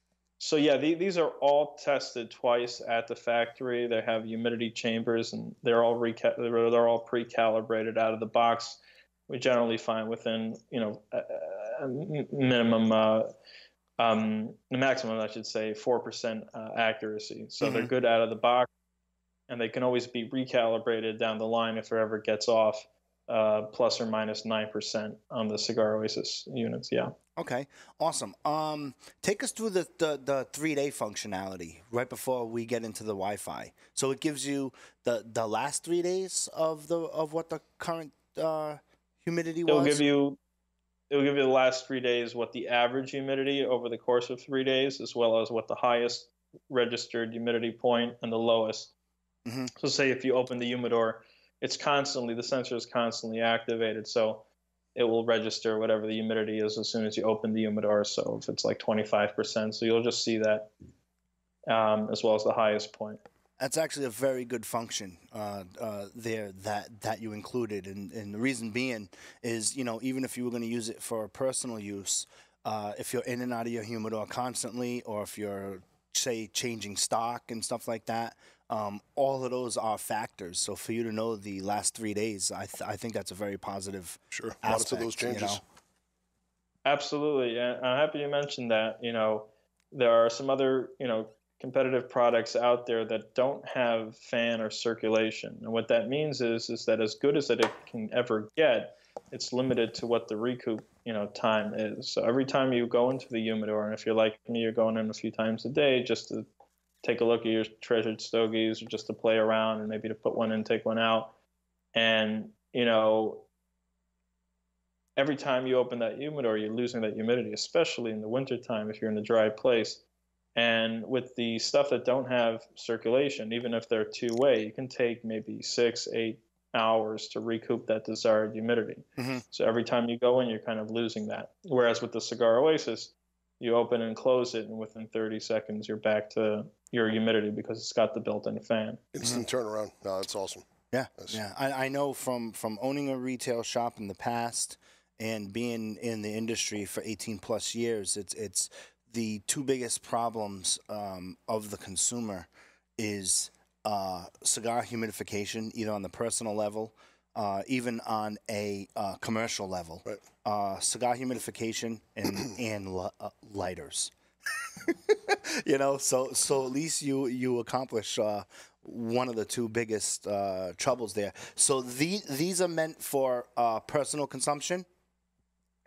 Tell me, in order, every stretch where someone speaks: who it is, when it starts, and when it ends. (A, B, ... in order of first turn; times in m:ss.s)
0:00.4-0:13.3 A
0:14.0-0:18.7 A
0:17.6-0:17.9 B
0:19.5-0:27.1 A
0:27.4-0:40.0 B
0:39.7-0:40.4 A
0:41.1-0:48.9 A
0:49.5-0:49.7 B
0:49.8-1:00.7 A
1:01.7-1:03.2 A
1:03.6-1:25.6 B
1:24.3-1:25.6 C
1:26.8-1:46.5 A
1:47.0-1:51.3 A
1:51.9-1:53.5 A
1:55.2-2:00.0 A
2:00.6-2:19.0 A
2:09.2-2:09.4 B
2:19.1-2:20.6 C
2:20.9-2:44.1 B
2:44.8-2:54.9 B